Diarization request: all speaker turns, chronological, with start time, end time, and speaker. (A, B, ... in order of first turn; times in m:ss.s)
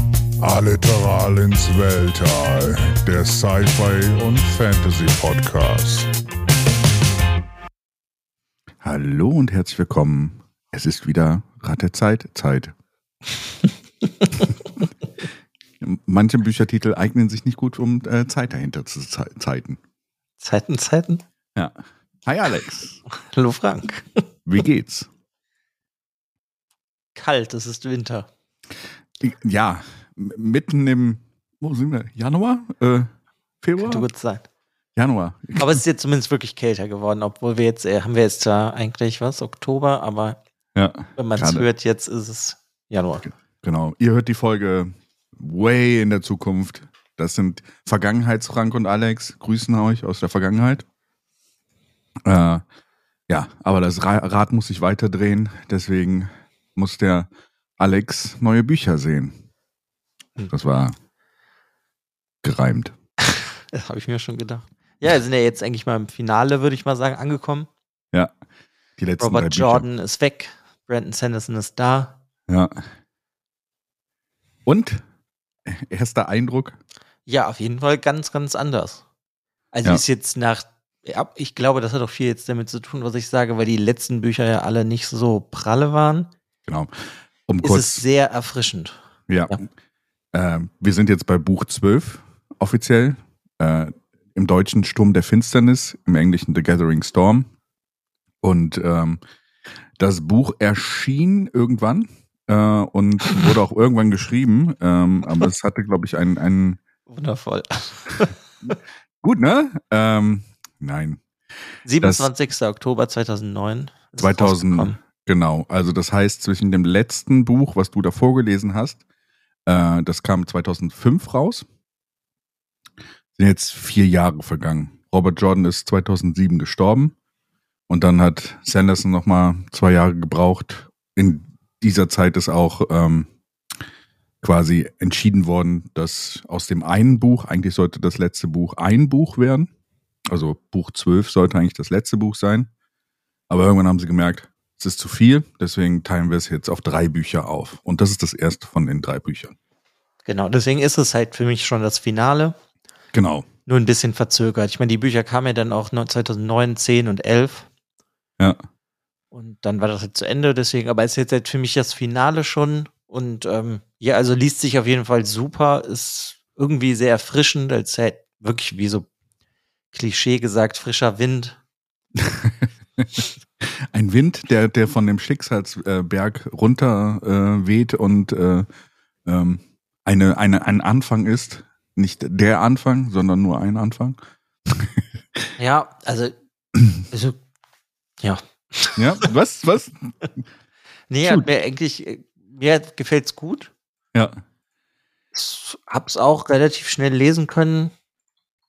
0:00.4-0:06.1 A
0:08.8-0:12.7 B
0:14.2-0:14.5 C
0:15.8-0:19.8 B
0:20.4-0:21.2 C
0:22.2-0:23.0 B
0:23.1-0:24.2 C
0:24.5-0:25.1 B
0:27.2-0:28.3 C
0:29.2-0:34.0 B
0:33.8-0:34.4 C
0:35.0-0:35.8 B
0:35.6-0:40.4 C
0:40.7-0:41.6 B
0:41.2-0:43.3 C
0:43.6-0:50.8 B
0:52.2-0:52.6 B
0:53.3-0:59.3 B
1:00.5-1:00.9 B
1:02.4-1:02.9 B
1:03.2-1:07.7 C
1:09.0-1:09.8 B
1:09.2-1:12.2 C
1:12.5-1:12.8 B
1:14.6-1:15.0 B
1:15.7-1:16.8 B
1:17.3-1:19.0 C
1:19.7-1:26.3 C
1:26.7-1:28.0 B
1:27.6-1:29.0 C
1:29.3-1:29.6 B
1:30.3-1:37.5 B
1:38.4-1:39.2 B
1:40.0-1:46.8 B
1:47.1-1:48.7 C
1:49.2-1:51.2 B
1:51.8-1:55.0 C
1:52.0-1:52.3 B
1:54.2-1:59.0 B
1:59.6-2:01.6 B
2:03.4-2:07.1 B
2:07.9-2:13.3 B
2:14.4-2:19.7 B
2:20.3-2:22.7 B
2:23.5-2:29.5 B
2:30.3-2:32.5 C
2:33.1-2:33.4 B
2:33.7-2:37.7 C
2:39.3-2:49.1 C
2:49.9-2:51.6 C
2:52.2-2:58.7 B
2:59.2-3:05.4 B
3:05.6-3:06.3 C
3:07.1-3:07.4 C
3:08.2-3:09.3 C
3:09.0-3:10.1 B
3:11.1-3:13.7 C
3:14.1-3:14.4 B
3:15.3-3:17.9 C